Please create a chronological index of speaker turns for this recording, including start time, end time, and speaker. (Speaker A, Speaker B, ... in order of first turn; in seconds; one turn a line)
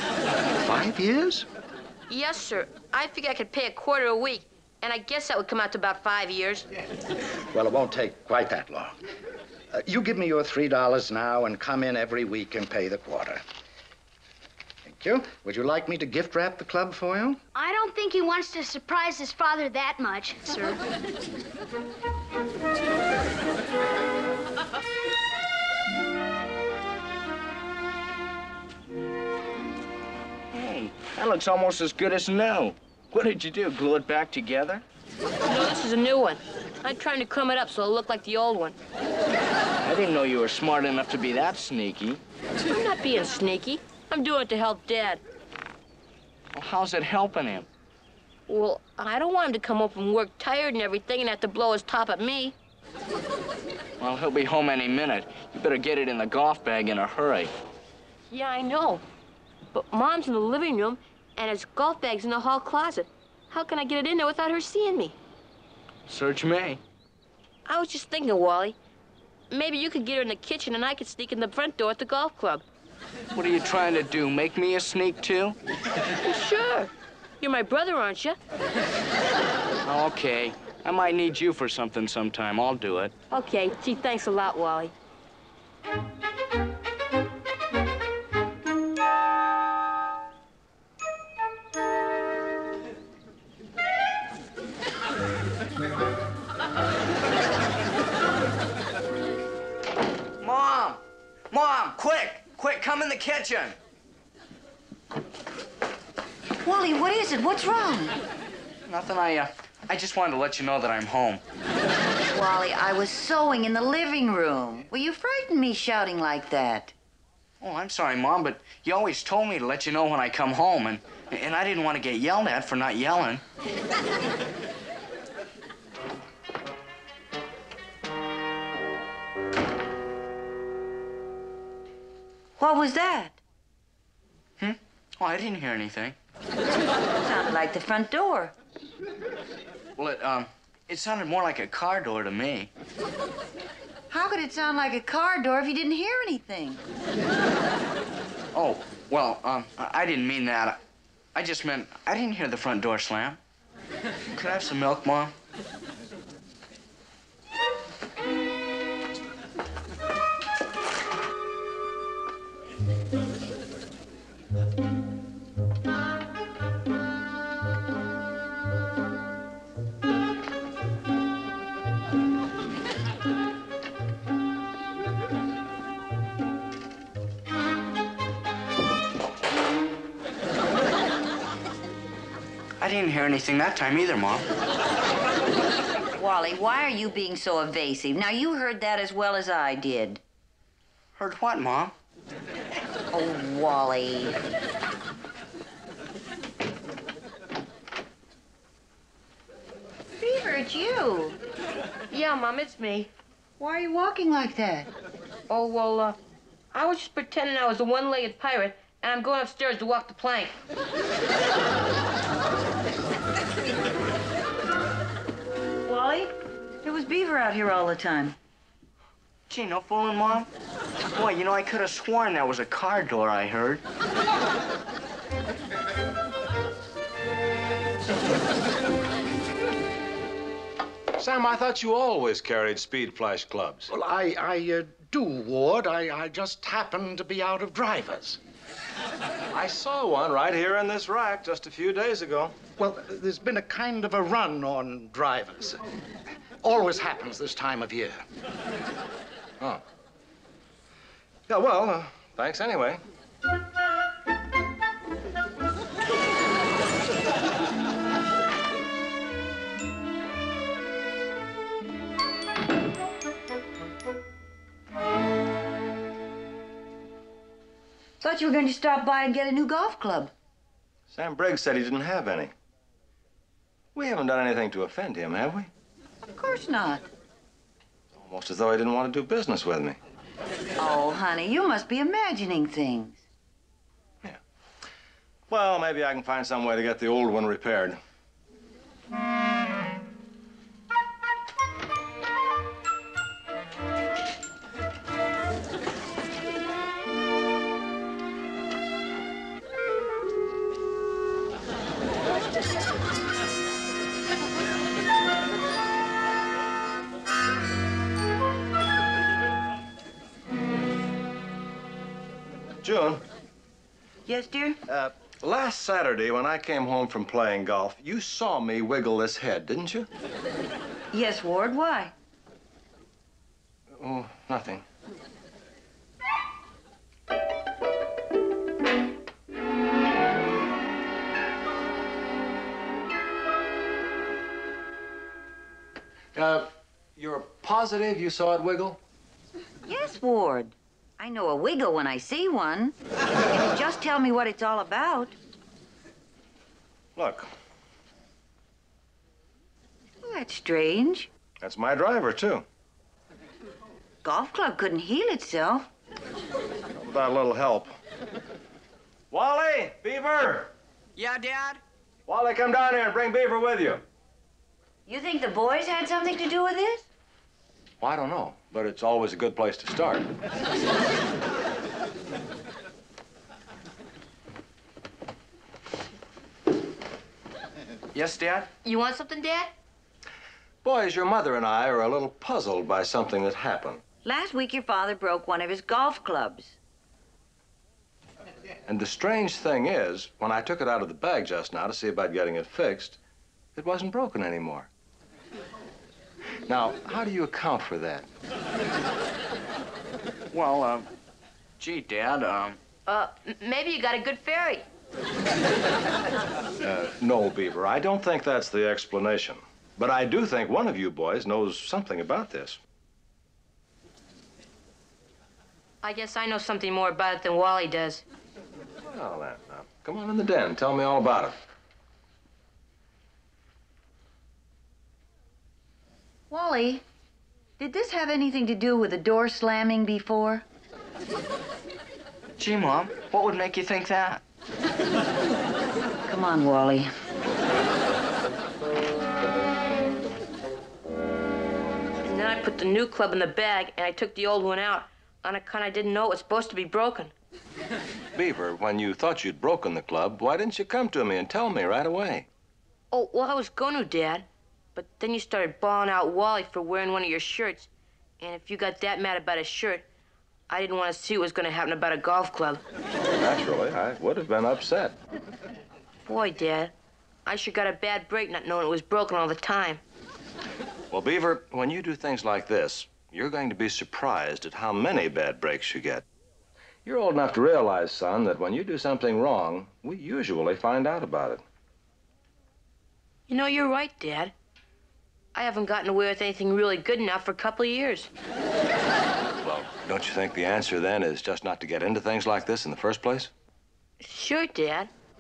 Speaker A: 0.6-1.5
Speaker B: 2.1-6.7
Speaker A: 7.5-9.0
Speaker A: 9.7-13.4
Speaker A: 14.8-17.4
Speaker C: 17.6-20.8
Speaker D: 30.5-34.8
Speaker B: 35.5-38.8
Speaker D: 39.8-42.2
Speaker B: 42.7-45.2
Speaker D: 46.5-47.7
Speaker B: 48.5-52.5
Speaker D: 54.0-57.5
Speaker B: 58.3-59.0
Speaker B: 59.7-65.2
Speaker D: 66.1-66.8
Speaker B: 67.7-68.8
Speaker B: 69.5-72.7
Speaker D: 73.3-75.6
Speaker B: 76.2-78.4
Speaker D: 79.8-83.1
Speaker B: 83.3-84.9
Speaker D: 100.4-101.0
Speaker D: 101.5-103.8
Speaker E: 106.6-108.2
Speaker D: 108.9-111.4
Speaker E: 112.3-117.0
Speaker D: 117.6-123.4
Speaker E: 132.6-133.4
Speaker D: 134.6-136.2
Speaker E: 137.2-138.6
Speaker D: 140.0-142.7
Speaker E: 144.1-146.8
Speaker D: 148.5-150.8
Speaker D: 151.3-153.4
Speaker D: 154.3-155.3
Speaker D: 182.8-184.5
Speaker E: 186.2-190.2
Speaker D: 191.2-191.9
Speaker E: 193.1-194.4
Speaker E: 200.2-201.4
Speaker B: 202.1-203.1
Speaker E: 203.6-204.9
Speaker B: 205.5-206.2
Speaker B: 206.7-210.6
Speaker E: 215.8-218.4
Speaker D: 219.5-220.5
Speaker D: 221.1-223.8
Speaker F: 231.2-233.9
Speaker A: 233.9-238.4
Speaker F: 239.5-242.6
Speaker A: 242.8-245.8
Speaker A: 246.6-248.2
Speaker F: 251.5-253.0
Speaker E: 268.2-270.3
Speaker F: 271.1-272.5
Speaker F: 273.9-275.7
Speaker E: 276.3-277.0
Speaker F: 278.2-280.0
Speaker E: 280.8-283.2
Speaker F: 285.5-288.0
Speaker F: 312.8-313.2
Speaker E: 314.3-314.8
Speaker F: 314.9-320.1
Speaker E: 321.1-322.1
Speaker F: 323.9-324.9
Speaker F: 336.3-339.0
Speaker E: 339.8-343.0
Speaker E: 343.5-345.4
Speaker F: 347.2-347.5
Speaker E: 350.2-351.3
Speaker F: 351.6-352.7
Speaker E: 354.2-355.9
Speaker F: 356.9-357.9
Speaker F: 359.3-360.7
Speaker D: 361.2-361.8
Speaker F: 362.3-364.0
Speaker E: 365.1-367.1
Speaker F: 368.0-370.3
Speaker D: 378.1-378.7
Speaker B: 378.9-379.7
Speaker F: 380.8-384.0
Speaker E: 384.2-386.8
Speaker F: 388.9-393.2
Speaker F: 393.8-394.9
Speaker F: 396.7-398.3
Speaker D: 400.5-401.1
Speaker D: 401.8-402.8
Speaker B: 403.1-404.9
Speaker F: 406.8-412.8
Speaker B: 416.0-418.2
Speaker F: 419.0-421.6
Speaker E: 426.5-427.1
Speaker E: 427.8-430.6
Speaker D: 432.6-434.4
Speaker E: 436.2-437.1
Speaker B: 442.2-447.3
Speaker F: 448.3-452.5
Speaker B: 453.1-457.9
Speaker B: 458.4-460.1
Speaker B: 460.7-462.8
Speaker F: 463.4-465.2
Speaker B: 466.3-466.9
Speaker B: 467.5-470.0
Speaker F: 471.1-476.2
Speaker F: 477.1-481.6
Speaker B: 483.5-484.5
Speaker B: 485.5-488.3
Speaker F: 489.6-493.5
Speaker B: 494.2-495.1